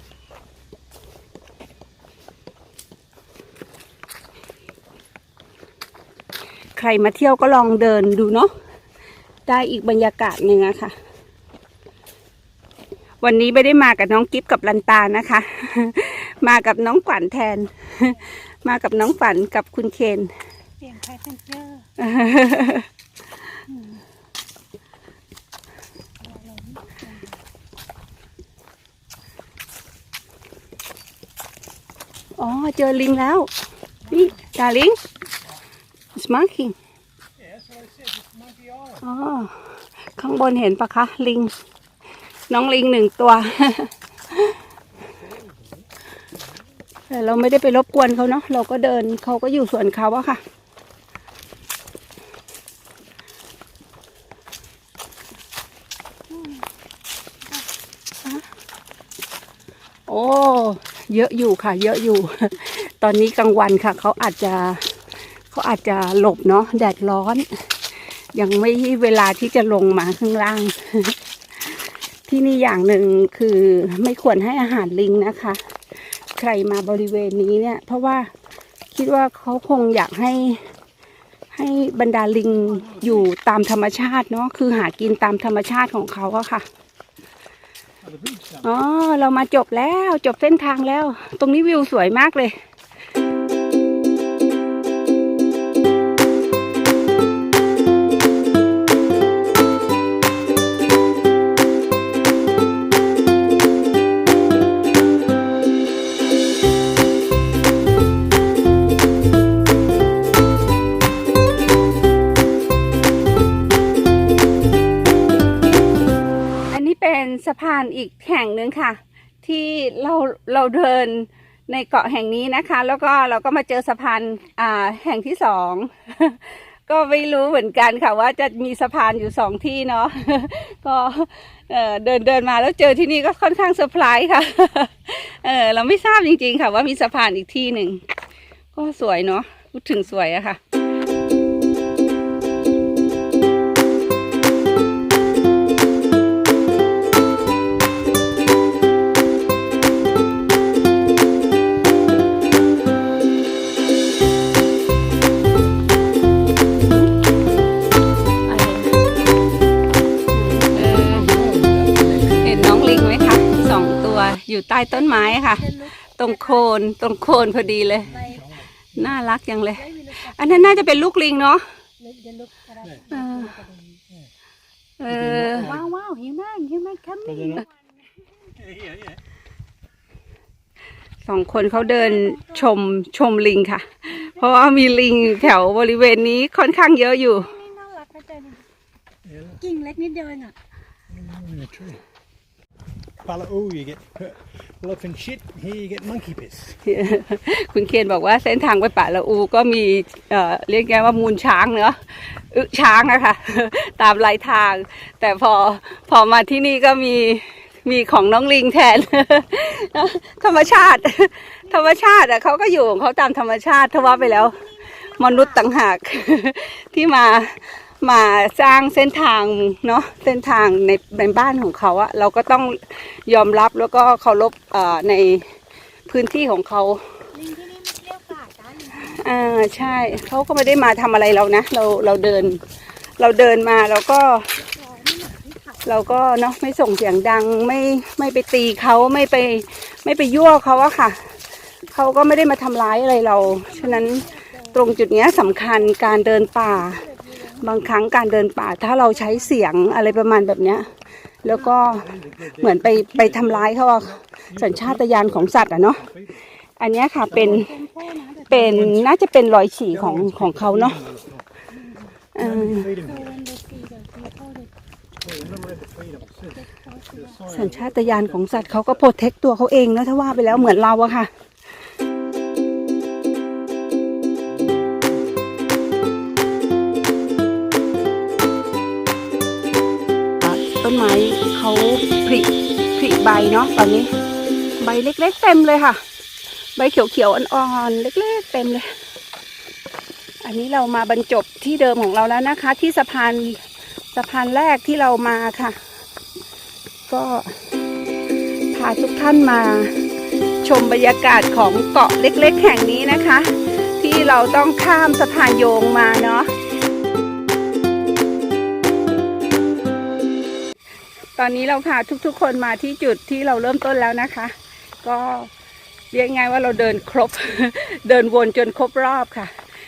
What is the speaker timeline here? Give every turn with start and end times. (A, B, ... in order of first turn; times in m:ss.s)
0:06.8-0:08.5 A
0:09.4-0:10.9 A
0:13.2-0:20.3 A
0:20.8-0:21.8 B
0:22.0-0:22.9 A
0:26.2-0:27.4 B
0:32.4-0:33.5 A
0:34.1-0:35.0 A
0:36.1-0:36.8 A
0:37.4-0:39.0 C
0:39.0-0:39.6 A
0:40.2-0:41.5 A
0:42.5-0:44.5 A
0:45.2-0:45.8 C
0:47.1-0:50.4 A
1:00.1-1:04.8 A
1:05.5-1:07.5 A
1:08.3-1:11.2 A
1:12.3-1:15.6 A
1:16.3-1:18.3 A
1:18.9-1:20.6 A
1:21.5-1:26.6 A
1:22.8-1:23.2 C
1:28.0-1:28.6 C
1:28.6-1:32.5 A
1:56.7-2:18.0 A
2:18.7-2:20.6 A
2:38.4-2:39.0 A
2:40.3-2:41.3 A
2:40.8-2:42.8 C
2:42.4-2:48.2 A
2:44.9-2:46.6 B
2:48.0-2:49.1 C
2:48.0-2:48.5 B
2:48.9-2:51.6 A
2:49.7-2:50.9 B
2:52.0-2:54.0 B
2:53.1-2:53.5 A
2:55.0-2:56.6 A
2:55.1-2:55.9 C
2:55.6-2:58.1 B
2:57.2-2:57.6 C
2:58.6-2:59.1 C
3:01.2-3:07.5 A
3:01.6-3:02.7 B
3:07.4-3:08.6 B
3:09.2-3:09.6 C
3:09.6-3:10.5 B
3:11.1-3:12.0 C
3:13.2-3:16.8 C
3:16.8-3:22.0 A
3:22.5-3:34.6 A
3:34.0-3:35.6 B
3:35.1-3:45.5 A
3:46.1-3:47.0 A
3:47.3-3:49.2 B
3:49.0-3:52.6 A
3:53.2-3:54.6 A
3:54.6-3:55.8 B
3:55.8-4:01.2 A
4:01.9-4:07.0 A
4:03.4-4:04.9 B
4:06.7-4:07.7 B
4:07.6-4:10.9 A
4:09.2-4:09.6 B
4:11.4-4:16.0 A
4:11.4-4:16.4 C
4:16.8-4:17.7 A
4:17.3-4:17.6 C
4:17.3-4:18.6 B
4:18.5-4:21.0 A
4:18.5-4:19.1 C
4:19.9-4:21.5 C
4:21.8-4:22.1 B
4:22.3-4:22.9 A
4:22.4-4:23.4 C
4:22.9-4:24.7 B
4:25.2-4:29.0 C
4:26.5-4:27.4 B
4:27.5-4:31.3 A
4:40.4-4:44.1 A
4:44.8-4:46.0 A
4:46.8-4:48.9 A
4:50.4-4:53.6 A
4:54.1-4:55.8 A
4:57.1-4:57.6 A
4:58.7-5:00.0 A
5:00.6-5:06.5 A
5:11.4-5:15.5 A
5:16.1-5:19.5 A